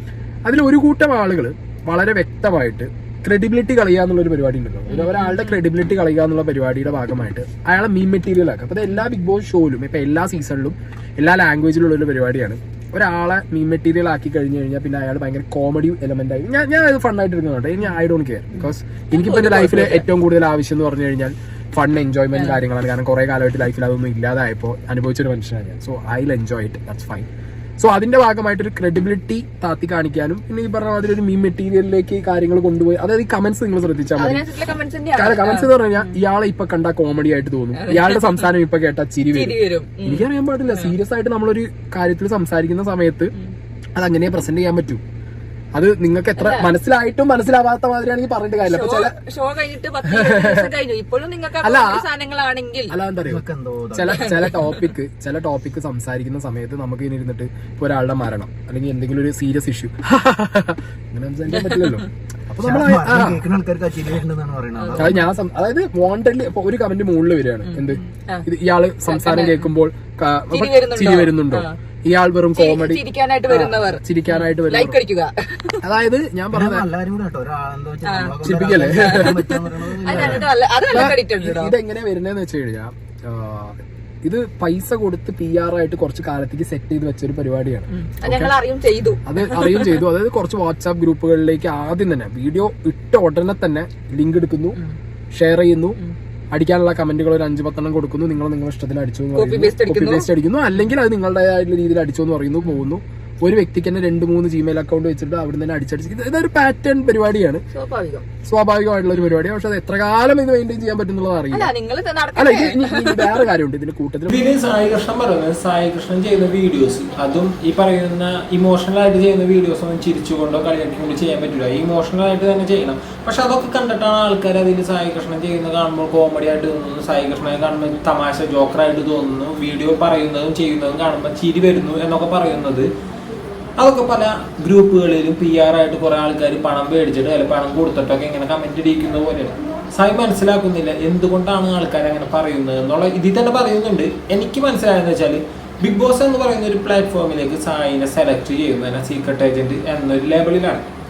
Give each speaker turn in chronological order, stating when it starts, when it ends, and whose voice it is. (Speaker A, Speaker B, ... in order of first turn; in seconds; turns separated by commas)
Speaker A: 0.5-27.3, Speaker B: 5.0-5.4, Speaker B: 19.1-20.0, Speaker B: 22.3-22.6, Speaker A: 27.8-34.5, Speaker B: 34.1-36.0, Speaker A: 35.1-43.3, Speaker B: 37.8-38.4, Speaker B: 39.3-40.9, Speaker A: 44.0-45.0, Speaker A: 45.7-49.1, Speaker B: 46.4-46.7, Speaker B: 48.6-52.9, Speaker A: 50.0-50.7, Speaker A: 51.6-52.0, Speaker A: 52.9-63.4, Speaker C: 53.2-54.3, Speaker B: 54.2-54.8, Speaker B: 61.5-62.0, Speaker C: 62.6-65.2, Speaker A: 64.9-75.0, Speaker B: 67.7-68.5, Speaker B: 69.1-69.7, Speaker B: 70.5-71.8, Speaker B: 72.5-75.8, Speaker A: 75.8-76.8, Speaker C: 76.5-80.5, Speaker B: 78.0-78.3, Speaker A: 78.4-79.4, Speaker B: 78.9-79.4, Speaker B: 80.0-81.8, Speaker A: 80.1-88.6, Speaker B: 87.9-90.0, Speaker A: 89.2-94.8, Speaker A: 95.3-96.0, Speaker A: 96.5-107.6, Speaker B: 99.3-100.3, Speaker B: 107.7-108.2, Speaker A: 108.4-111.7, Speaker B: 111.5-113.5, Speaker A: 112.3-114.4, Speaker D: 114.3-132.9, Speaker D: 133.8-150.8